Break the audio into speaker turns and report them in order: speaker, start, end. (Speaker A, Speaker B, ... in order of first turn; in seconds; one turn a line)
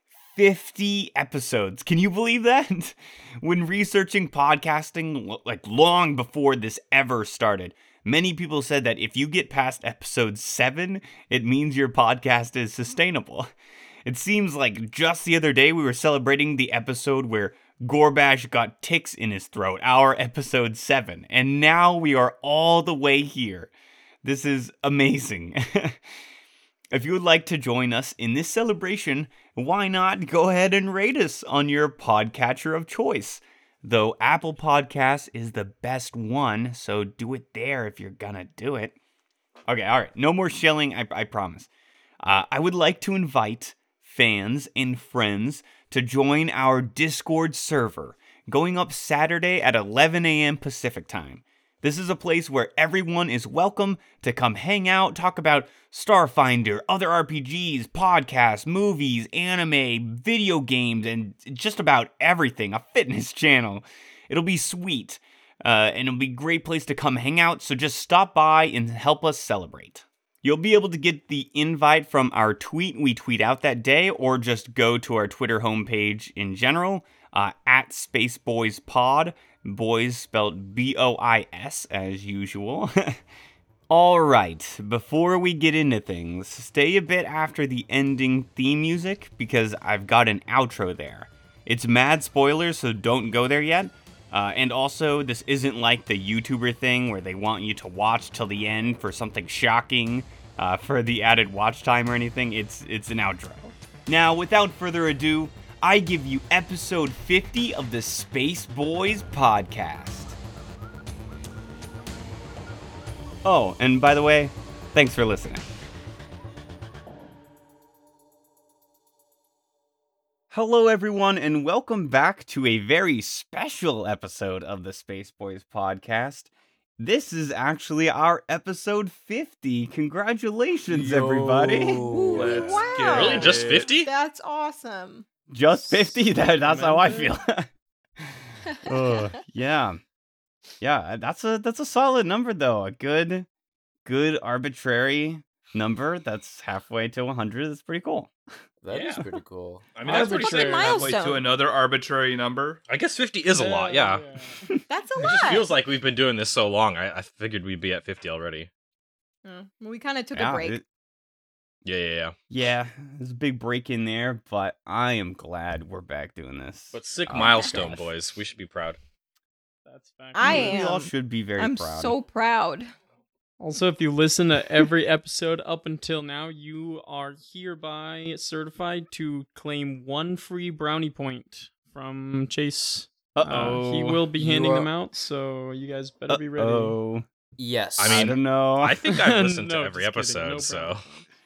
Speaker A: 0.3-13.5
Speaker A: 14.1-23.7
Speaker A: 24.2-26.0
Speaker A: 26.9-39.0
Speaker A: 39.7-41.7
Speaker A: 42.2-83.2
Speaker A: 83.9-110.4
Speaker A: 113.5-115.7
Speaker A: 120.5-132.7
Speaker B: 130.9-132.7
Speaker C: 131.8-133.9
Speaker D: 132.1-135.3
Speaker E: 133.0-134.1
Speaker A: 135.5-137.7
Speaker F: 135.8-137.4
Speaker A: 138.2-140.0
Speaker A: 140.8-143.5
Speaker A: 144.1-148.3
Speaker B: 148.8-149.9
Speaker E: 148.9-149.3
Speaker E: 149.9-151.1
Speaker F: 150.1-151.1
Speaker D: 150.1-151.5
Speaker C: 150.7-152.8
Speaker E: 152.9-154.2
Speaker F: 153.5-154.7
Speaker D: 154.9-155.7
Speaker E: 155.2-158.7
Speaker D: 159.4-160.8
Speaker A: 160.3-160.8
Speaker E: 161.8-162.4
Speaker A: 162.5-168.1
Speaker E: 166.9-169.0
Speaker D: 167.6-167.9
Speaker F: 169.9-170.9
Speaker D: 170.3-172.9
Speaker A: 170.4-172.2
Speaker F: 173.6-187.0
Speaker A: 183.3-184.3
Speaker B: 184.3-184.9
Speaker A: 186.3-187.2
Speaker B: 187.6-188.4
Speaker E: 188.0-191.0
Speaker A: 188.1-189.0
Speaker F: 189.1-191.2